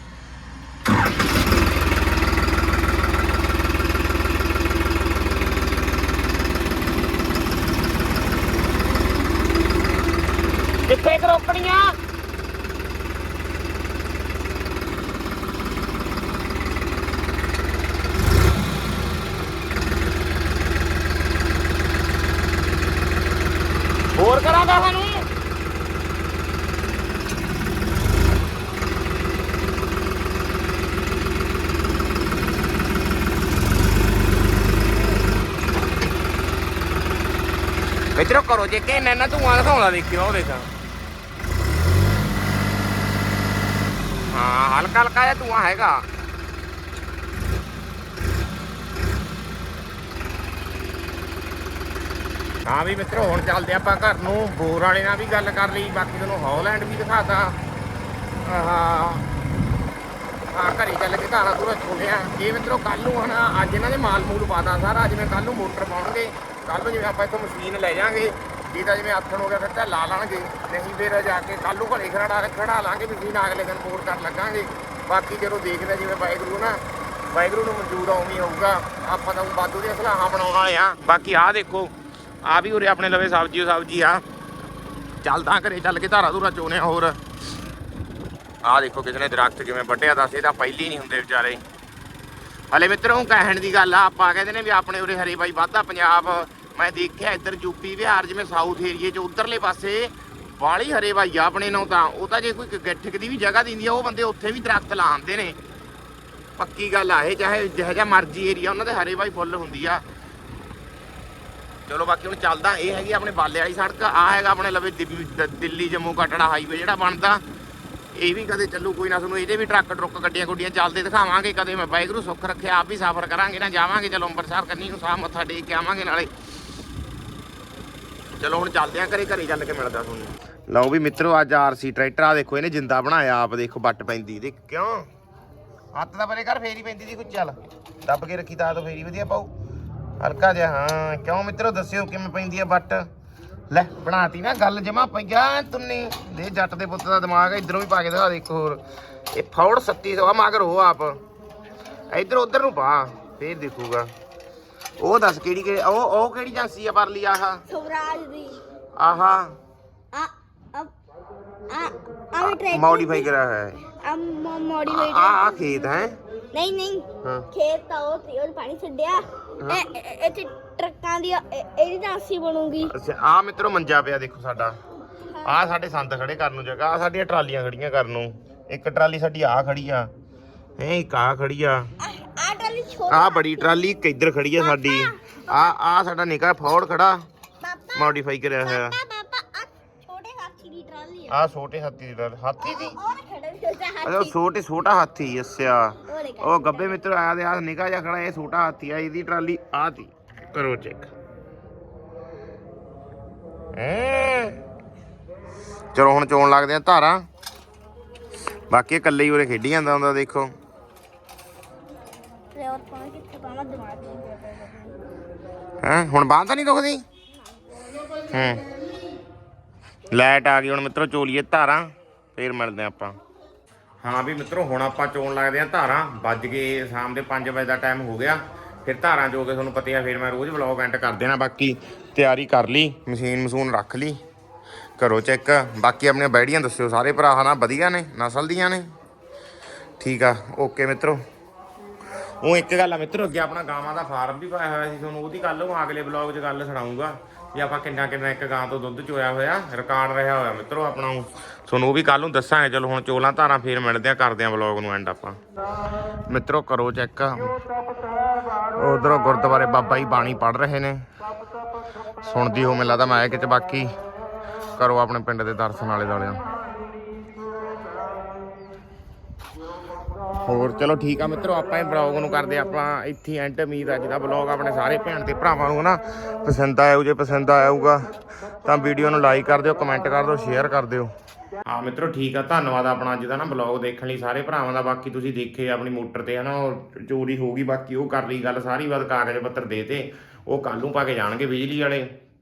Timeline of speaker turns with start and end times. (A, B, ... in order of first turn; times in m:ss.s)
0:10.9-0:11.9 A
0:24.2-0:25.3 A
0:38.2-0:40.7 A
0:44.3-0:46.0 A
0:52.7-0:57.6 A
0:58.4-0:59.3 A
1:00.5-1:21.9 A
1:22.4-1:24.2 A
1:25.2-1:27.2 A
1:28.6-1:31.6 A
1:32.7-1:45.6 A
1:46.6-1:50.0 A
1:51.9-1:57.4 A
1:58.2-2:06.3 A
2:08.4-2:15.1 A
2:15.9-2:19.5 A
2:20.2-2:23.1 A
2:23.7-2:31.2 A
2:32.1-2:34.1 A
2:35.0-2:37.6 A
2:37.7-2:38.6 B
2:39.0-2:39.6 A
2:40.1-2:40.9 B
2:41.7-2:43.3 B
2:42.4-2:43.8 A
2:44.0-2:45.8 B
2:44.9-2:46.2 A
2:46.5-2:52.9 B
2:52.8-2:54.8 A
2:55.4-3:00.1 A
3:00.8-3:01.9 A
3:02.0-3:03.7 B
3:03.1-3:07.2 A
3:04.6-3:05.4 B
3:07.6-3:11.4 B
3:08.0-3:09.0 A
3:11.3-3:13.0 A
3:12.6-3:14.4 B
3:14.0-3:21.1 A
3:16.1-3:17.0 B
3:23.8-3:24.6 A
3:25.9-3:27.2 A
3:28.7-3:30.5 A
3:32.5-3:35.0 B
3:35.8-3:37.0 A
3:38.3-3:38.6 A
3:40.1-3:43.2 A
3:44.0-3:54.2 A
3:55.0-3:58.9 A
4:00.0-4:01.2 A
4:02.4-4:15.4 A
4:16.3-4:17.6 A
4:18.8-4:21.0 A
4:22.2-4:23.9 A
4:24.8-4:26.4 A
4:30.4-4:38.1 A
4:38.6-4:41.1 A
4:41.6-4:52.1 A